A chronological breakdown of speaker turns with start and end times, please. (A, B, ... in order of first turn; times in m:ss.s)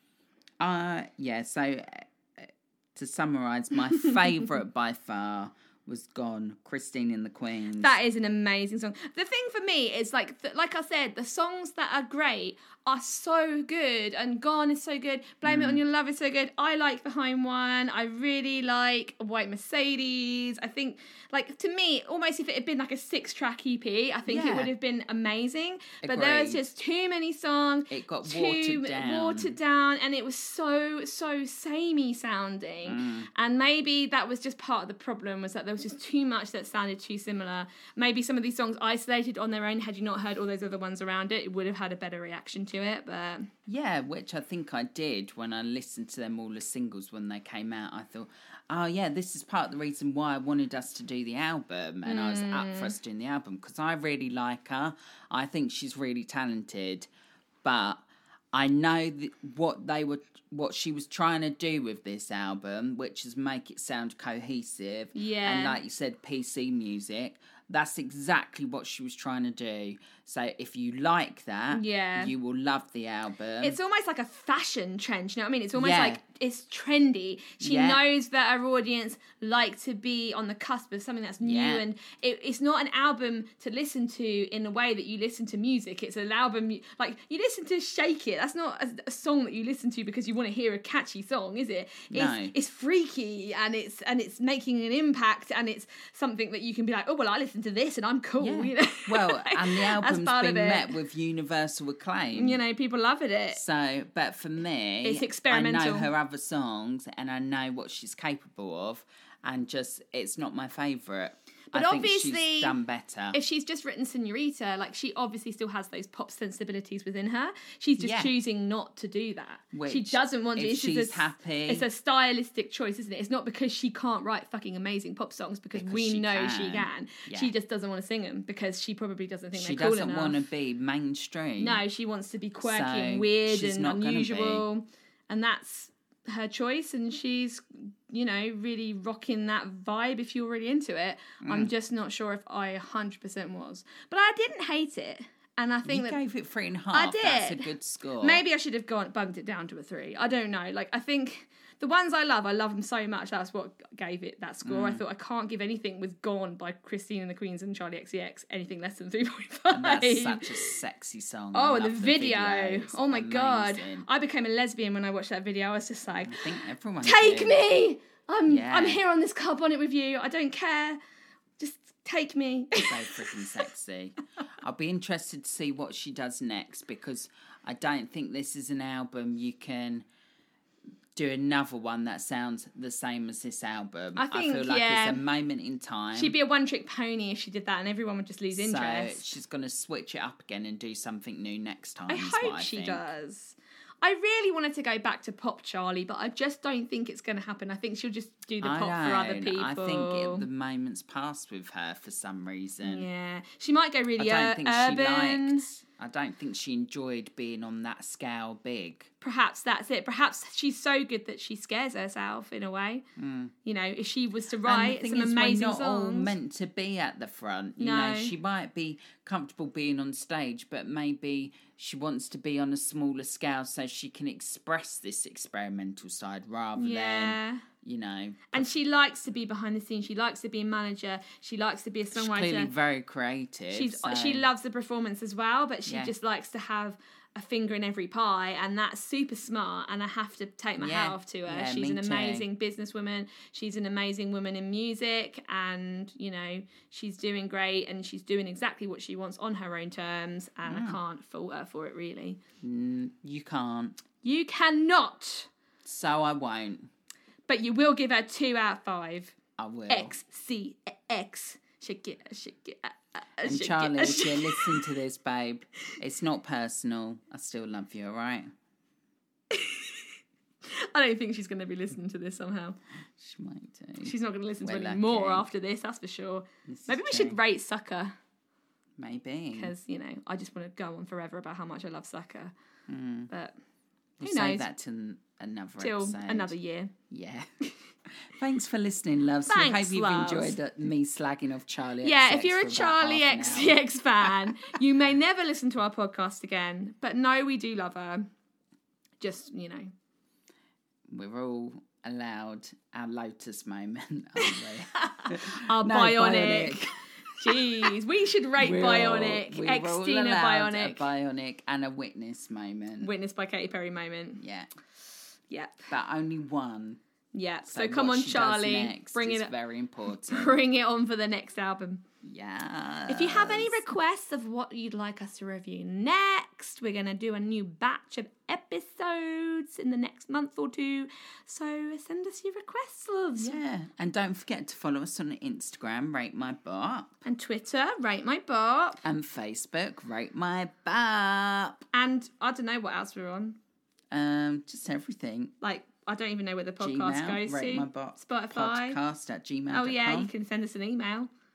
0:00.6-0:08.0 A
0:07.8-0:43.5 B
0:15.4-0:15.8 A
0:24.3-0:24.7 A
0:26.0-0:26.6 A
0:27.9-0:29.6 A
0:32.8-0:33.3 A
0:43.7-0:57.1 A
0:52.0-0:52.9 B
0:57.6-1:13.8 A
1:05.1-1:05.8 B
1:11.7-1:12.3 B
1:13.6-1:40.9 B
1:15.7-1:16.2 A
1:17.6-1:18.0 A
1:21.4-1:21.8 A
1:32.1-1:32.5 A
1:38.4-1:42.6 A
1:42.3-1:43.6 B
1:43.5-1:53.4 A
1:45.0-1:46.1 B
1:51.7-1:52.8 B
1:53.3-2:10.4 B
1:58.0-1:58.3 A
1:59.7-2:01.8 A
2:05.7-2:07.5 A
2:09.5-2:11.8 A
2:11.6-2:26.2 B
2:12.6-2:14.6 A
2:21.4-2:21.7 A
2:25.8-2:28.4 A
2:26.9-2:40.7 B
2:34.6-2:35.0 A
2:39.7-2:44.1 A
2:41.5-2:46.5 B
2:46.2-2:47.6 A
2:47.0-2:51.0 B
2:48.5-2:49.0 A
2:51.6-2:53.6 B
2:52.8-3:00.0 A
3:01.2-3:06.3 A
3:04.2-3:05.2 B
3:06.1-3:09.2 B
3:08.5-3:13.0 A
3:12.1-3:20.4 B
3:18.6-3:23.1 A
3:22.8-3:25.6 B
3:24.2-3:29.1 A
3:29.2-3:33.0 B
3:33.2-3:33.5 A
3:33.6-3:36.3 B
3:34.6-3:48.7 A
3:37.8-3:38.3 B
3:46.8-3:47.6 B
3:48.5-3:52.7 B
3:52.1-3:54.4 A
3:53.7-4:12.4 B
3:55.8-3:56.1 A
4:00.8-4:02.5 A
4:10.6-4:11.0 A
4:12.6-4:14.0 A
4:14.2-4:15.5 B
4:15.8-4:16.9 A
4:17.5-4:19.4 B
4:19.6-4:20.2 A
4:19.9-4:24.8 B
4:23.4-4:28.5 A
4:29.5-4:30.0 B
4:30.6-4:32.8 B
4:33.2-4:35.4 A
4:34.0-4:38.1 B
4:36.7-4:37.4 A
4:39.0-4:39.7 A
4:39.5-4:42.5 B
4:42.9-4:43.3 A
4:44.2-4:46.5 A
4:44.2-4:44.6 B
4:45.8-4:46.9 B
4:47.1-4:47.5 A
4:48.1-4:54.7 A
4:49.5-4:50.6 B
4:52.0-4:58.3 B
4:59.2-4:59.9 B
5:01.1-5:07.9 A
5:04.4-5:11.0 B
5:08.6-5:13.1 A
5:13.0-5:14.4 B
5:14.4-5:14.7 A
5:15.5-5:15.9 B
5:15.9-5:17.0 A
5:17.3-5:19.5 B
5:17.6-5:20.6 A
5:20.1-5:22.0 B
5:22.2-5:23.8 A
5:23.1-5:33.6 B
5:33.4-5:37.2 A
5:37.2-5:39.0 B
5:39.0-5:41.8 A
5:41.9-5:43.6 B
5:44.1-5:45.5 A
5:45.6-5:49.0 B
5:46.8-5:50.3 A
5:49.7-5:51.3 B